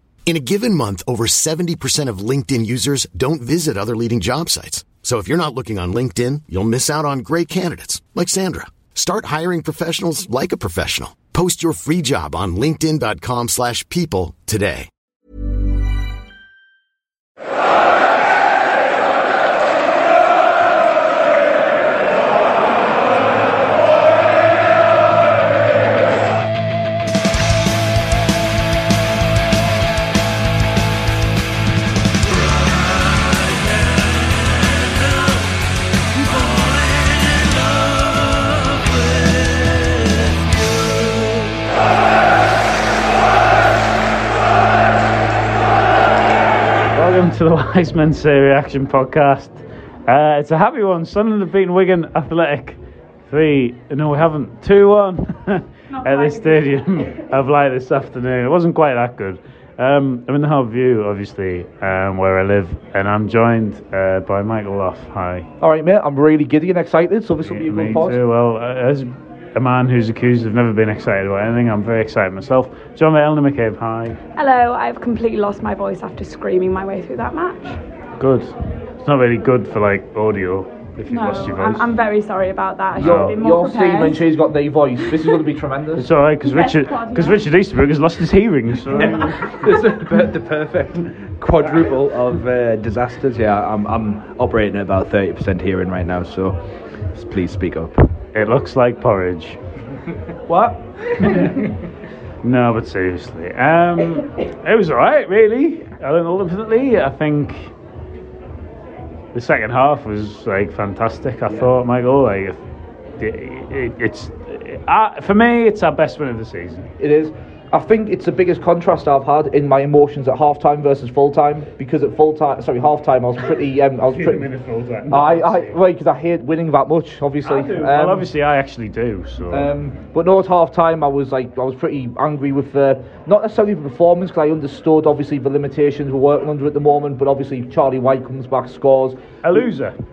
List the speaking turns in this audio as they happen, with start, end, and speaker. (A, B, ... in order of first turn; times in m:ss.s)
0:00.3-0:14.9 A
0:46.9-1:05.5 B
0:55.9-0:57.1 C
1:05.6-1:08.2 D
1:07.4-1:14.2 B
1:14.4-1:17.8 C
1:18.2-1:21.9 B
1:21.1-1:24.3 C
1:23.0-1:23.4 B
1:23.0-1:26.1 D
1:26.0-1:29.4 B
1:26.4-1:27.4 C
1:28.9-1:36.6 E
1:37.1-1:38.0 E
1:38.3-1:39.6 B
1:40.5-1:41.7 E
1:42.4-1:47.7 B
1:49.3-1:52.6 B
1:53.2-1:56.9 B
1:57.0-2:04.5 D
2:04.0-2:05.8 B
2:05.1-2:08.3 D
2:07.4-2:09.7 B
2:09.5-2:19.2 D
2:19.4-2:20.0 B